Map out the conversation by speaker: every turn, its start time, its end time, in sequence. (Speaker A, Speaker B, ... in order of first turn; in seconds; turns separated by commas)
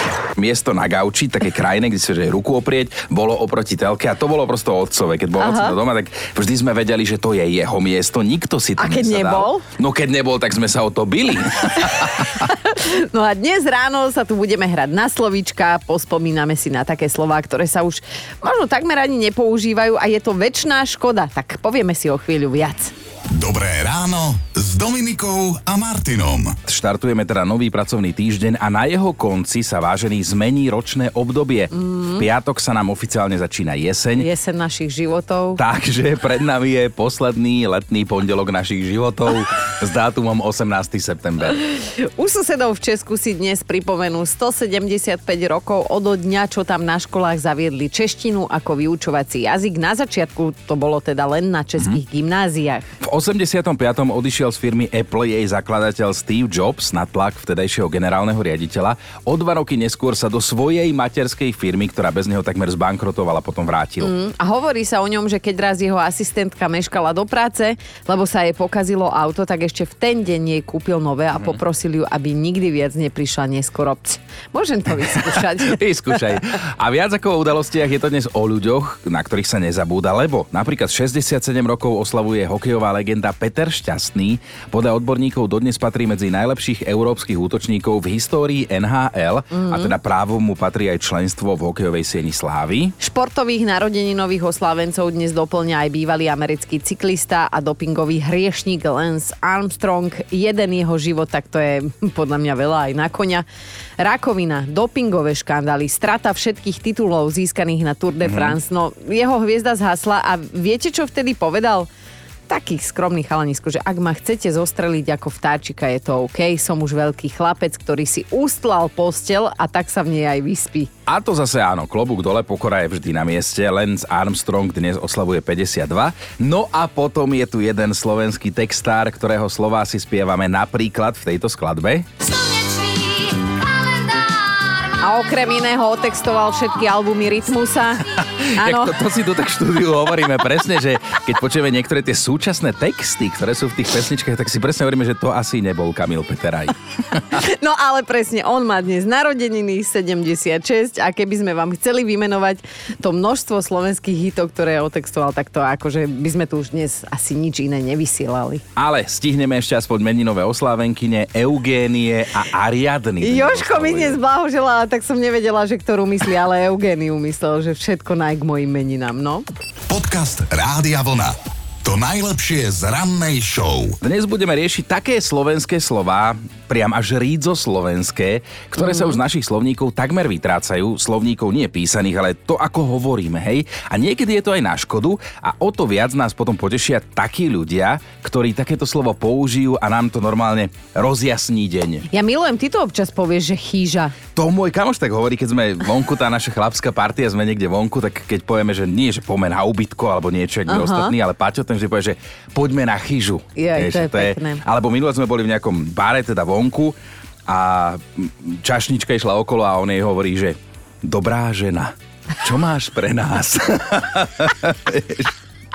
Speaker A: 0.4-12.3, Speaker B: 5.4-5.8, Speaker B: 8.8-9.6, Speaker B: 11.8-22.9, Speaker C: 23.3-26.6, Speaker A: 26.6-34.3, Speaker B: 31.7-32.2, Speaker B: 34.2-35.6, Speaker A: 35.6-41.6, Speaker B: 41.6-52.9, Speaker A: 53.0-64.1, Speaker B: 64.0-76.4, Speaker A: 75.7-92.9, Speaker B: 89.5-89.9, Speaker B: 93.0-103.5, Speaker B: 104.0-111.9, Speaker A: 108.2-108.5, Speaker B: 112.5-120.9, Speaker A: 121.1-132.1, Speaker B: 135.0-138.1, Speaker A: 138.2-147.2, Speaker B: 138.6-139.0, Speaker B: 147.3-158.6, Speaker A: 158.8-164.2, Speaker B: 163.2-169.4, Speaker C: 169.9-174.0, Speaker A: 174.0-192.0, Speaker B: 178.8-179.1, Speaker B: 192.1-194.2, Speaker A: 194.3-206.9, Speaker B: 200.7-201.1, Speaker B: 203.6-204.6, Speaker A: 207.5-215.3